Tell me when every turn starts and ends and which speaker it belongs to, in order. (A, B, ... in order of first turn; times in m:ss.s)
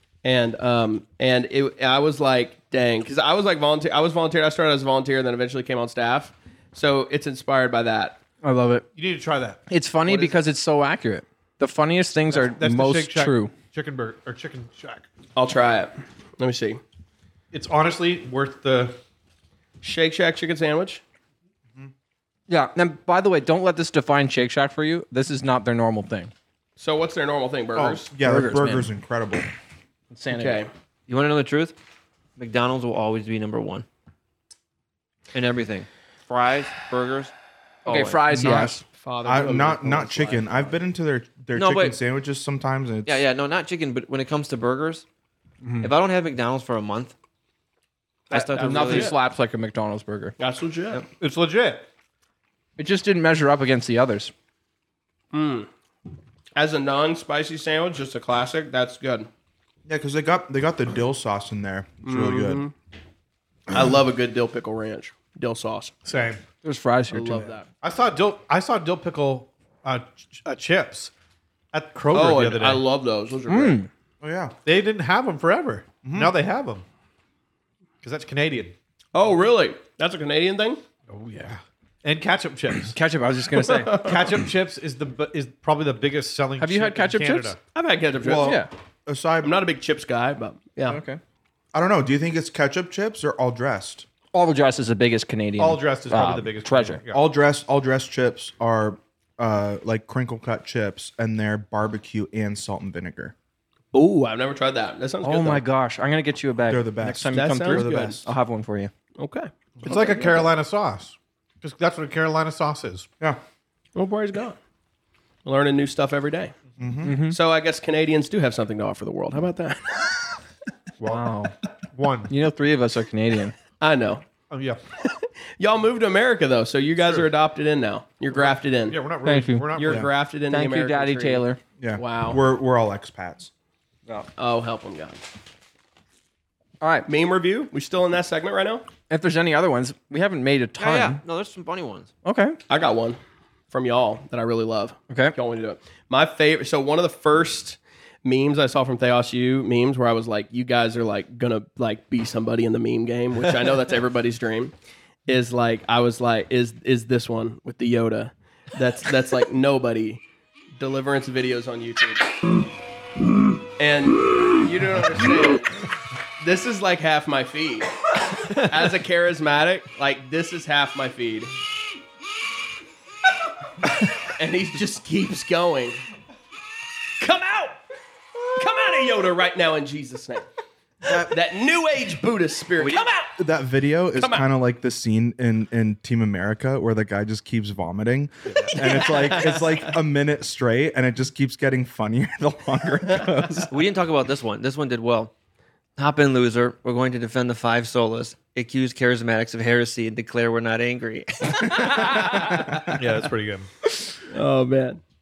0:00.2-0:08.2 A
0:08.4-0:08.8 B
0:08.9-0:09.6 C
0:09.7-0:13.5 B
0:10.1-0:10.4 A
0:12.3-0:15.0 C
0:15.4-0:16.8 A
0:17.5-0:19.0 C
0:19.8-0:21.0 A
0:22.5-0:26.3 B
0:26.8-0:28.1 A
0:27.8-0:29.5 D
0:28.2-0:28.9 B
0:30.1-0:30.6 B
0:30.3-0:30.7 A
0:31.1-0:31.8 E
0:32.4-0:33.8 E
0:35.3-0:37.3 E
0:37.8-0:38.3 E
0:37.8-0:38.8 B
0:38.3-0:43.2 D
0:38.6-0:40.8 A
0:41.5-0:42.0 E
0:43.0-0:45.0 E
0:45.8-0:47.1 E
0:48.3-0:49.1 E
0:48.3-0:49.1 A
0:48.3-0:50.3 B
0:50.4-0:51.0 A
0:51.2-0:51.8 C
0:52.8-0:54.3 B
0:55.3-0:55.7 A
0:56.6-0:59.3 A
0:59.8-1:02.6 D
1:02.0-1:02.7 A
1:03.7-1:05.9 A
1:06.0-1:06.4 C
1:06.6-1:07.5 B
1:07.1-1:07.6 A
1:07.8-1:11.1 C
1:11.7-1:12.8 C
1:12.1-1:13.8 A
1:13.5-1:13.9 B
1:14.2-1:14.6 D
1:14.6-1:16.8 C
1:16.0-1:16.3 D
1:18.0-1:18.7 C
1:19.1-1:20.8 A
1:21.1-1:22.9 C
1:22.9-1:24.1 B
1:23.8-1:24.1 A
1:24.0-1:27.6 C
1:26.6-1:27.6 B
1:27.7-1:28.6 A
1:28.2-1:29.6 D
1:28.4-1:28.7 B
1:29.4-1:31.0 A
1:30.8-1:31.2 B
1:31.7-1:34.1 D
1:34.3-1:37.0 B
1:35.6-1:37.2 C
1:37.1-1:43.3 D
1:43.9-1:45.6 A
1:45.2-1:48.9 B
1:46.7-1:48.3 D
1:47.3-1:48.2 A
1:49.2-1:50.4 A
1:49.8-1:53.1 C
1:53.9-1:54.6 A
1:55.4-1:56.5 A
1:56.8-1:57.2 D
1:57.0-1:57.4 B
1:57.3-2:00.2 A
2:01.0-2:01.5 B
2:01.9-2:02.3 C
2:02.3-2:03.5 B
2:03.8-2:04.2 A
2:04.5-2:04.8 C
2:05.6-2:09.0 A
2:07.0-2:07.3 C
2:08.3-2:10.1 C
2:09.2-2:09.8 B
2:09.8-2:11.4 A
2:10.5-2:11.6 B
2:11.8-2:13.5 D
2:12.0-2:12.4 A
2:14.4-2:15.2 A
2:16.8-2:17.1 B
2:17.1-2:18.8 A
2:19.1-2:21.2 B
2:20.8-2:22.1 E
2:22.2-2:22.6 B
2:22.7-2:23.2 A
2:23.7-2:34.7 A
2:35.3-2:40.2 A
2:40.8-2:42.3 A
2:43.8-2:45.7 A
2:46.4-2:48.0 A
2:48.5-2:51.5 A
2:54.2-2:56.0 A
2:57.2-2:57.8 A
2:58.5-3:00.5 A
3:01.0-3:01.3 D
3:01.1-3:03.3 A
3:03.4-3:13.7 D
3:04.2-3:04.4 A
3:08.7-3:09.8 A
3:13.7-3:15.3 E
3:16.0-3:21.8 E
3:22.8-3:23.7 C
3:24.3-3:25.0 A